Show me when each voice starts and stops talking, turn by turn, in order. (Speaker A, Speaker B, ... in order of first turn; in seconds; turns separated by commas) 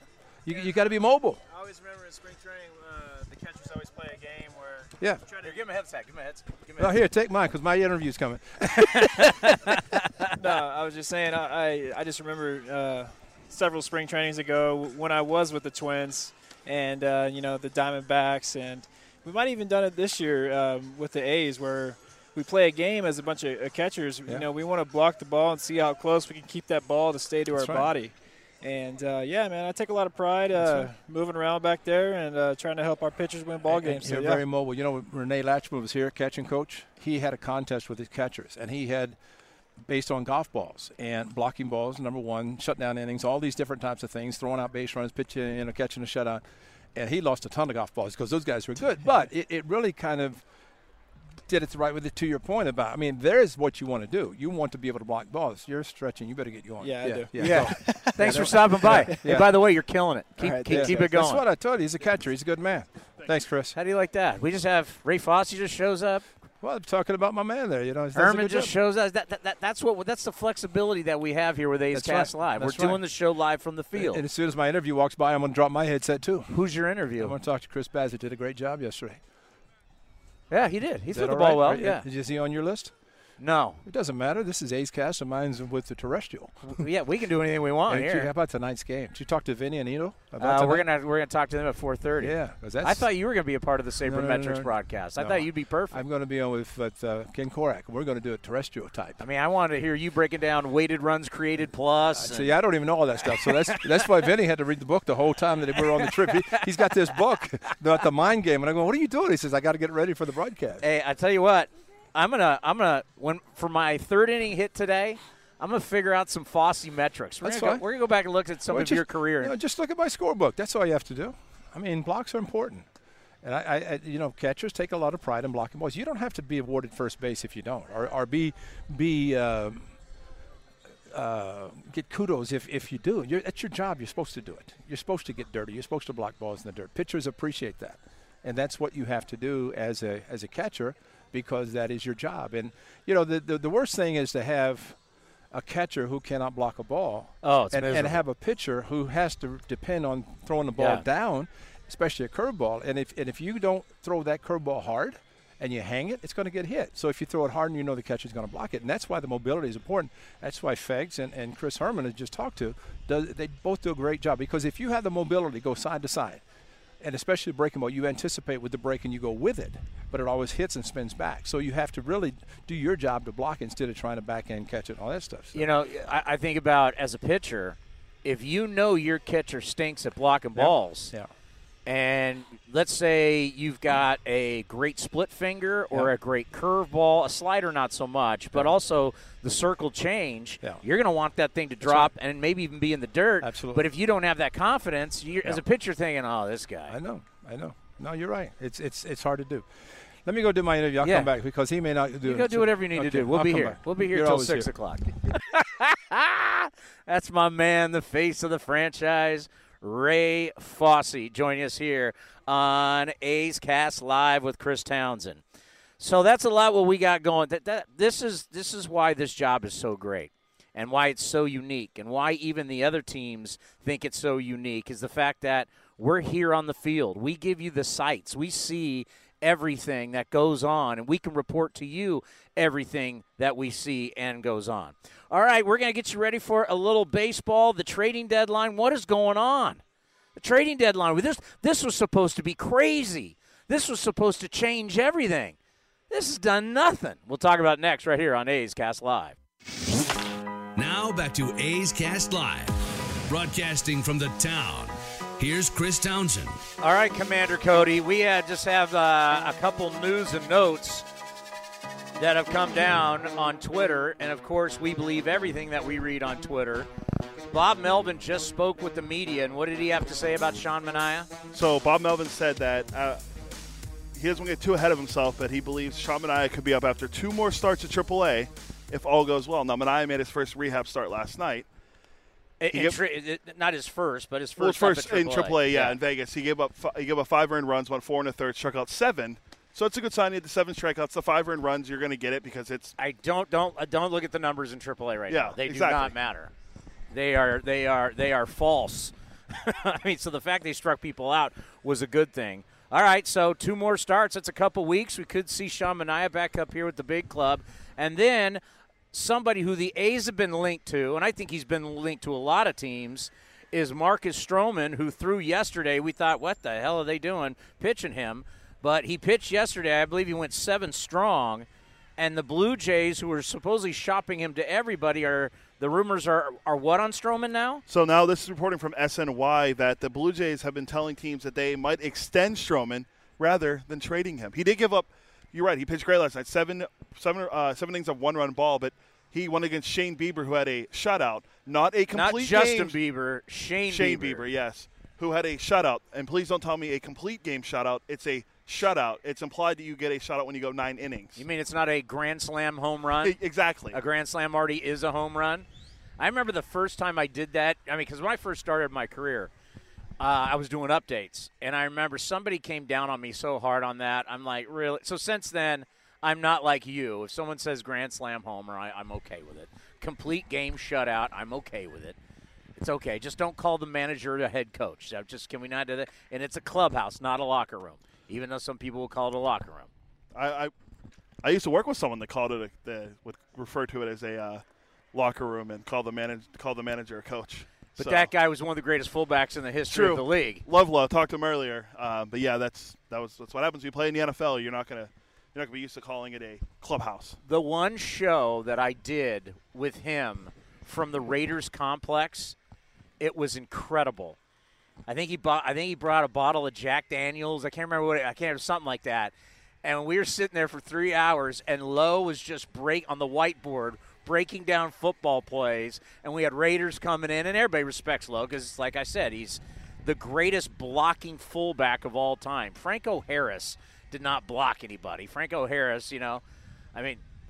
Speaker A: 0.4-1.4, Speaker B: 0.5-0.8, Speaker B: 1.5-6.8, Speaker A: 5.0-5.2, Speaker C: 5.4-5.7, Speaker A: 6.8-9.5, Speaker C: 9.1-9.7, Speaker B: 10.4-34.4, Speaker A: 27.5-27.9, Speaker A: 30.5-30.9, Speaker A: 33.7-39.2, Speaker A: 39.8-46.4, Speaker A: 46.9-50.5, Speaker A: 51.5-59.5, Speaker B: 56.8-59.3, Speaker C: 57.3-61.4, Speaker B: 60.4-61.1, Speaker A: 60.7-63.8, Speaker C: 63.7-66.2, Speaker A: 66.6-68.7, Speaker C: 68.1-74.2, Speaker A: 71.9-73.0, Speaker A: 73.9-76.5, Speaker C: 76.5-77.3, Speaker A: 77.2-79.2, Speaker C: 80.5-82.0, Speaker A: 81.1-83.0, Speaker C: 83.4-83.8, Speaker A: 83.8-86.8, Speaker C: 86.6-88.3, Speaker A: 87.9-90.8, Speaker C: 90.4-96.0, Speaker A: 92.2-93.1, Speaker A: 94.0-99.2, Speaker C: 99.2-102.5, Speaker A: 102.1-110.8, Speaker C: 103.5-103.7, Speaker C: 110.8-119.5, Speaker A: 117.4-117.8, Speaker A: 118.7-122.8, Speaker A: 123.4-129.9, Speaker A: 131.1-145.0, Speaker A: 145.5-166.4, Speaker C: 147.4-148.2, Speaker C: 150.8-151.1, Speaker A: 167.0-175.7, Speaker C: 175.5-181.1, Speaker A: 180.6-181.3, Speaker C: 181.8-196.9, Speaker A: 191.8-192.1, Speaker A: 193.4-193.9, Speaker A: 196.9-204.7, Speaker C: 201.0-201.3, Speaker C: 202.2-215.4, Speaker C: 216.0-239.8, Speaker C: 240.4-245.6, Speaker C: 246.1-249.3, Speaker D: 250.8-256.6, Speaker C: 256.8-261.1, Speaker C: 262.2-266.9, Speaker C: 267.5-271.3, Speaker E: 271.5-273.2, Speaker E: 274.1-281.7, Speaker C: 282.6-286.0, Speaker E: 282.7-283.0, Speaker E: 284.6-292.9, Speaker C: 293.0-296.5, Speaker E: 295.3-296.1, Speaker C: 297.1-308.6, Speaker C: 309.1-321.7, Speaker C: 322.2-327.8, Speaker E: 327.9-342.9, Speaker C: 342.1-344.5, Speaker E: 343.9-351.4, Speaker C: 351.4-353.4, Speaker E: 353.2-354.0, Speaker C: 353.9-355.6, Speaker C: 356.2-359.5, Speaker C: 360.2-372.1, Speaker C: 372.8-379.9, Speaker E: 380.3-380.7, Speaker E: 381.4-388.3, Speaker C: 388.0-390.6, Speaker E: 389.9-397.4, Speaker C: 397.4-402.6, Speaker C: 403.2-404.4, Speaker C: 405.1-426.4, Speaker C: 426.9-427.2